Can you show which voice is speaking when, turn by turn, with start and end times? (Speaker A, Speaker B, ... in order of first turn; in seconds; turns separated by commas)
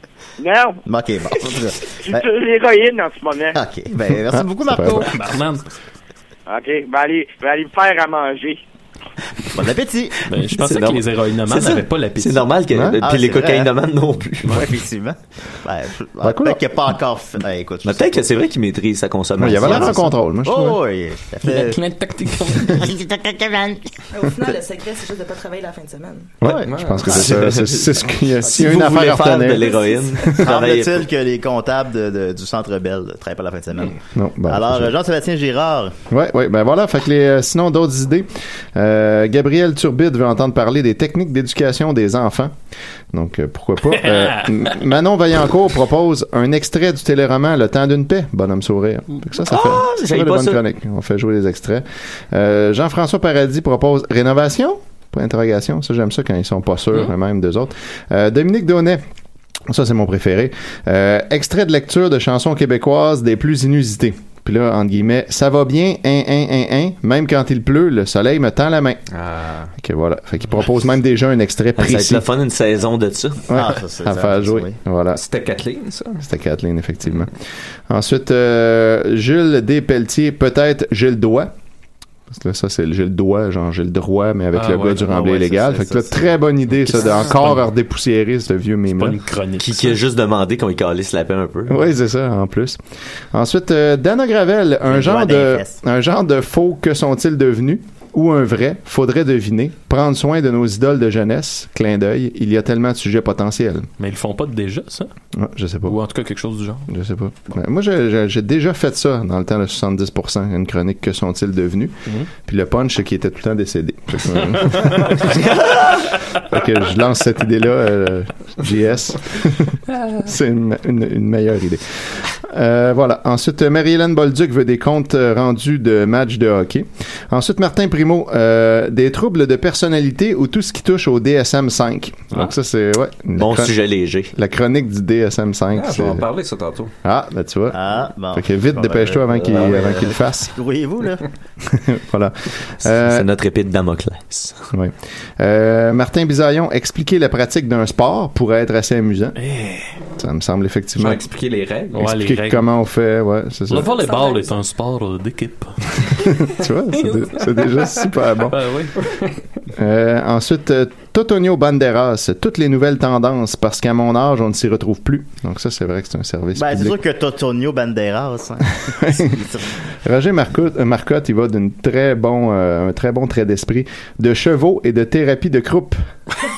Speaker A: 0.4-0.8, Speaker B: 0.9-2.3, Speaker A: 2.0-3.6, Speaker B: 3.5-5.2, Speaker C: 4.3-5.1, Speaker D: 5.0-5.6, Speaker A: 6.5-8.6, Speaker B: 9.5-10.2, Speaker D: 10.3-12.5, Speaker E: 10.5-14.6, Speaker C: 12.7-13.0, Speaker B: 13.0-13.7, Speaker B: 14.5-18.3, Speaker C: 16.2-16.7, Speaker E: 17.8-20.0, Speaker C: 19.4-20.8, Speaker B: 19.6-21.8, Speaker D: 21.4-22.9, Speaker B: 22.6-23.9, Speaker F: 24.1-26.3, Speaker C: 26.4-29.7, Speaker B: 26.4-27.3, Speaker G: 26.7-27.1, Speaker E: 27.1-31.1, Speaker B: 30.4-36.0, Speaker C: 34.1-35.0, Speaker C: 36.1-42.5, Speaker C: 43.1-59.0, Speaker D: 44.0-44.7, Speaker E: 49.4-50.6, Speaker C: 59.7-69.0, Speaker G: 69.1-69.7, Speaker C: 69.8-72.2, Speaker E: 71.8-73.5, Speaker C: 73.5-75.2, Speaker B: 73.5-74.8, Speaker G: 75.1-76.2, Speaker C: 76.2-77.3, Speaker C: 77.9-81.5, Speaker C: 82.3-89.2, Speaker B: 84.9-86.3, Speaker D: 87.0-87.6, Speaker D: 89.0-90.0, Speaker E: 89.6-91.8, Speaker C: 91.7-92.8, Speaker C: 93.3-103.9, Speaker B: 94.9-95.8, Speaker D: 104.0-105.1, Speaker C: 105.3-106.0, Speaker D: 105.9-106.9, Speaker C: 106.9-115.4, Speaker D: 114.6-115.3, Speaker E: 115.4-115.9, Speaker C: 116.5-133.7, Speaker E: 133.4-134.3, Speaker C: 134.3-136.3, Speaker G: 135.7-136.9, Speaker C: 137.0-137.8, Speaker B: 137.7-141.3, Speaker C: 138.3-140.5, Speaker C: 141.7-143.3, Speaker E: 143.0-144.7, Speaker C: 144.7-149.4, Speaker D: 149.4-149.9, Speaker C: 150.2-151.2, Speaker G: 151.0-152.1, Speaker D: 151.9-152.7, Speaker C: 152.0-153.9, Speaker D: 153.7-156.5, Speaker F: 153.8-154.6, Speaker C: 156.2-158.6, Speaker D: 157.0-159.3, Speaker C: 159.7-167.0, Speaker B: 166.6-169.7, Speaker C: 169.0-169.3, Speaker C: 170.0-176.0